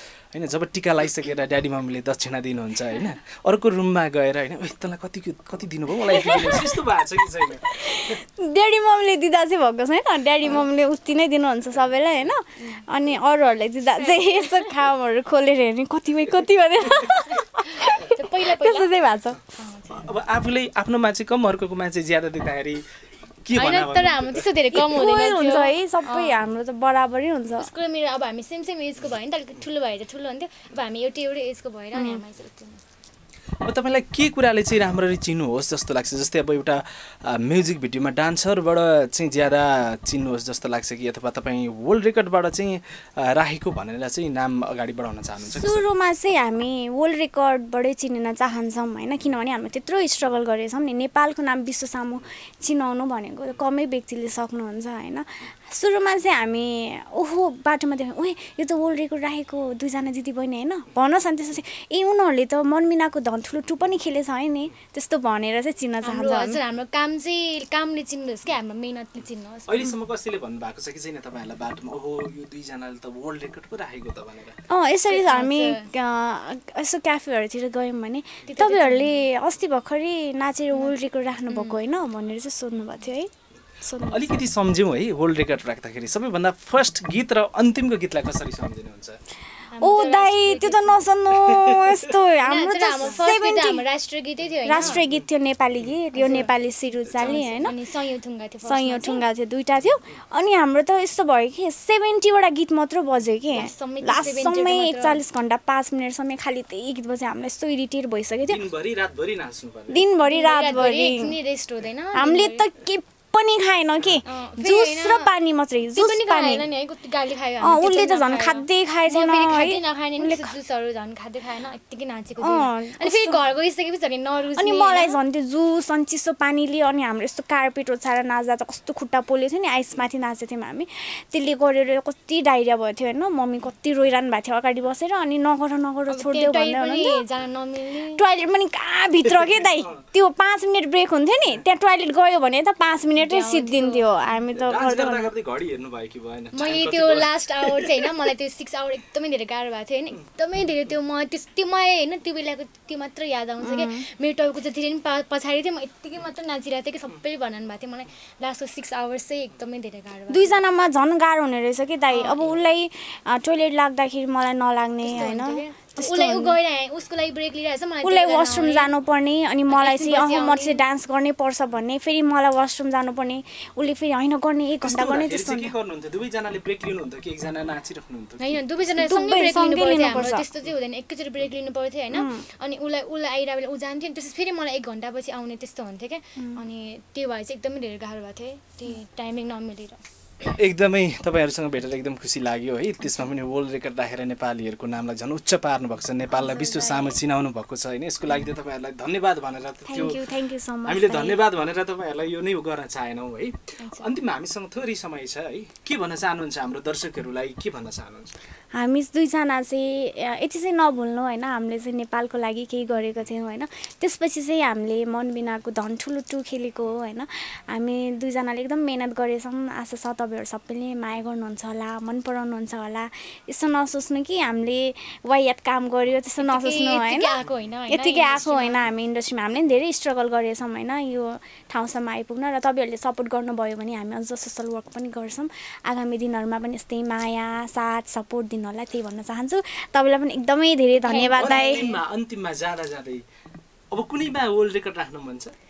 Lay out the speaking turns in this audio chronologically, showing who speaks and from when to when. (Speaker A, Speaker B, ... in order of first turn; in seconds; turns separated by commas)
Speaker A: 0.3-8.2, Speaker B: 6.1-6.8, Speaker B: 7.7-19.4, Speaker C: 13.9-14.8, Speaker C: 17.3-18.9, Speaker C: 19.5-20.0, Speaker A: 19.9-22.8, Speaker A: 23.4-24.5, Speaker C: 23.5-26.4, Speaker B: 24.7-27.7, Speaker C: 27.5-32.8, Speaker B: 31.9-32.2, Speaker A: 33.6-45.8, Speaker B: 45.5-66.6, Speaker C: 66.0-69.9, Speaker A: 69.7-74.6, Speaker B: 74.7-83.3, Speaker C: 75.1-75.9, Speaker C: 78.5-79.2, Speaker C: 81.5-81.8, Speaker B: 83.8-84.2, Speaker A: 84.0-89.2, Speaker C: 89.7-91.0, Speaker B: 89.8-93.8, Speaker A: 91.5-92.0, Speaker C: 92.4-95.0, Speaker B: 94.6-97.7, Speaker C: 96.1-96.5, Speaker A: 97.1-97.7, Speaker C: 97.2-99.2, Speaker B: 98.6-108.6, Speaker C: 103.5-105.2, Speaker A: 108.5-110.0, Speaker B: 109.9-111.3, Speaker C: 110.2-112.7, Speaker B: 112.1-116.7, Speaker C: 114.2-115.3, Speaker C: 115.9-125.2, Speaker B: 117.6-120.5, Speaker B: 122.4-123.4, Speaker B: 124.5-137.2, Speaker C: 136.1-138.2, Speaker B: 138.1-145.3, Speaker C: 143.2-144.1, Speaker A: 144.6-148.0, Speaker C: 146.5-160.5, Speaker B: 153.6-154.0, Speaker B: 160.3-166.6, Speaker C: 162.1-162.5, Speaker C: 165.0-168.9, Speaker B: 168.0-175.7, Speaker C: 169.7-170.8, Speaker A: 174.8-178.6, Speaker C: 178.4-190.0, Speaker B: 178.9-180.4, Speaker B: 182.1-182.4, Speaker A: 190.4-200.2, Speaker C: 196.3-197.2, Speaker B: 199.9-201.4, Speaker A: 200.8-208.3, Speaker C: 203.8-204.1, Speaker B: 208.7-242.0, Speaker C: 226.4-228.8, Speaker C: 241.0-241.9, Speaker A: 241.3-243.2, Speaker A: 243.9-245.5